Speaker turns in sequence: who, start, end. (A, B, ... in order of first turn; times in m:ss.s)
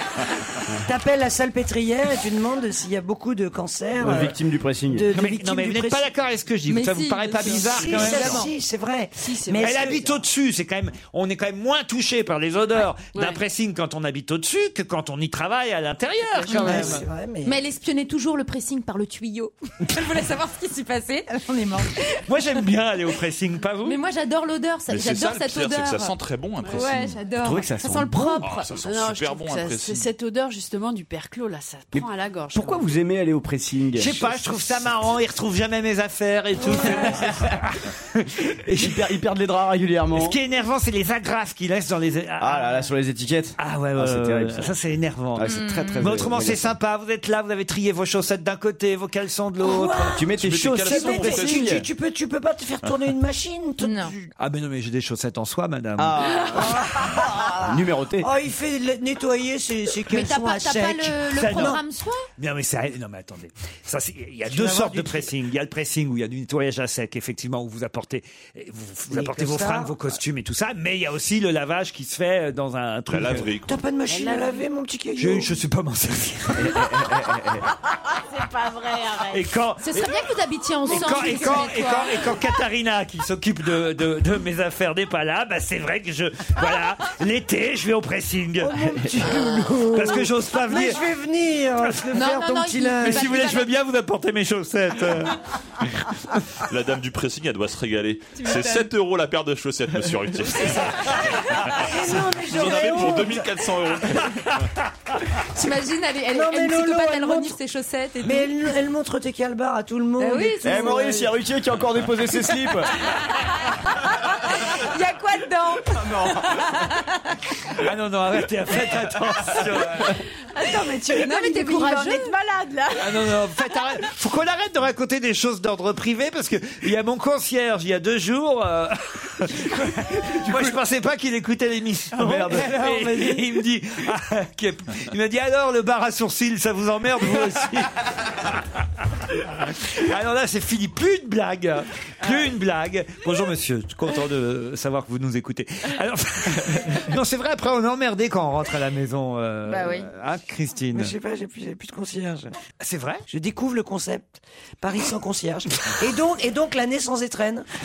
0:00.8-0:06.1 A
0:04.0-0:05.0 B
0:05.1-0:08.5 C
0:06.6-0:08.4 D
0:07.5-0:10.0 A
0:07.8-0:08.4 E
0:09.2-0:10.0 E
0:09.6-0:17.0 C
0:13.1-0:13.4 E
0:16.4-0:16.9 D
0:16.5-0:17.6 A
0:17.4-0:22.0 D
0:22.2-0:24.0 C
0:23.8-0:26.1 D
0:24.9-0:27.2 F
0:26.6-0:27.1 E
0:26.7-0:28.7 D
0:27.4-0:28.5 B
0:28.4-0:30.1 F
0:28.8-0:32.8 E
0:31.9-0:34.5 B
0:34.0-0:39.1 C
0:36.6-0:37.5 B
0:36.7-0:36.9 E
0:38.7-0:40.4 B
0:40.1-0:42.9 C
0:42.4-0:44.7 B
0:43.6-0:50.1 C
0:45.4-0:46.7 B
0:45.4-0:46.2 D
0:49.6-0:50.2 A
0:50.1-0:51.8 B
0:50.3-0:51.7 F
0:50.9-0:54.3 A
0:53.8-0:54.1 D
0:54.4-0:56.2 C
0:56.0-0:56.8 B
0:56.5-1:01.8 A
0:57.6-0:58.3 B
1:00.1-1:02.2 D
1:01.3-1:01.8 C
1:02.4-1:13.5 C
1:04.4-1:05.3 A
1:09.1-1:10.0 A
1:13.1-1:13.8 F
1:13.7-1:15.6 A
1:14.1-1:14.6 E
1:15.2-1:16.9 C
1:18.3-1:19.4 E
1:19.3-1:20.2 C
1:19.8-1:22.2 D
1:20.8-1:28.8 C
1:20.9-1:21.5 A
1:28.7-1:33.5 A
1:29.9-1:31.0 C
1:32.1-1:33.7 D
1:33.0-1:35.4 C
1:36.7-1:41.2 F
1:38.4-1:38.7 E
1:41.7-1:43.5 A
1:41.7-1:44.5 F
1:45.5-1:48.5 D
1:46.3-1:47.6 A
1:48.2-1:51.1 A
1:50.2-1:51.2 D
1:50.6-1:52.9 B
1:54.9-1:55.8 D
1:55.0-1:55.5 E
1:56.0-1:56.4 B
1:57.8-2:00.2 C
2:00.5-2:03.3 E
2:01.1-2:02.3 D
2:02.9-2:17.9 C
2:09.7-2:10.7 A
2:12.1-2:13.5 A
2:19.7-2:31.1 C
2:29.6-2:30.1 D
2:30.9-2:32.5 A
2:32.8-2:33.2 C
2:33.3-2:37.7 A